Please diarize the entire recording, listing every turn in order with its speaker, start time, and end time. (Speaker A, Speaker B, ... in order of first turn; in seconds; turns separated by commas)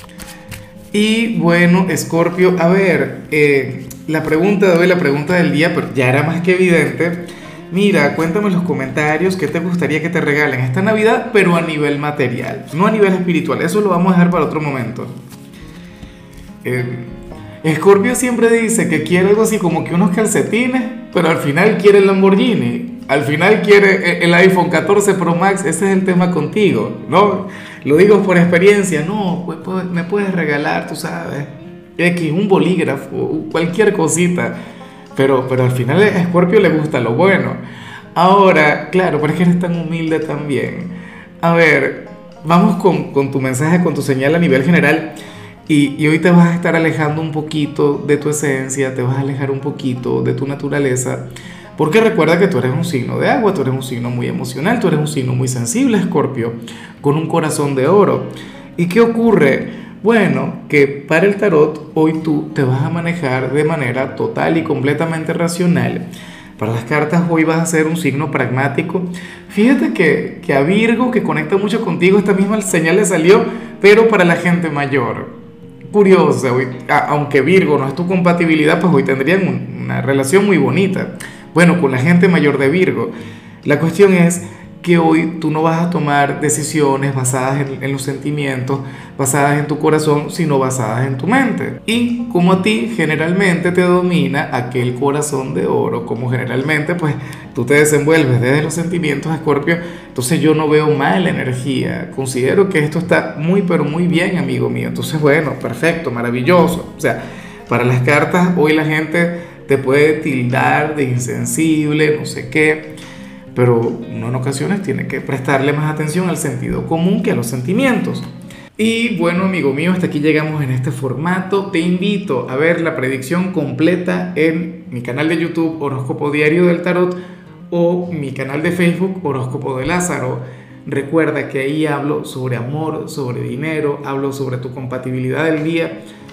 Speaker A: 0.9-15.1, Speaker A: 16.6-17.1, Speaker A: 17.6-34.5, Speaker A: 35.1-37.6, Speaker A: 38.1-45.1, Speaker A: 45.7-51.2, Speaker A: 51.8-66.0, Speaker A: 66.6-75.3, Speaker A: 75.9-83.1, Speaker A: 83.7-112.9, Speaker A: 113.5-118.3, Speaker A: 118.8-127.2, Speaker A: 127.7-136.0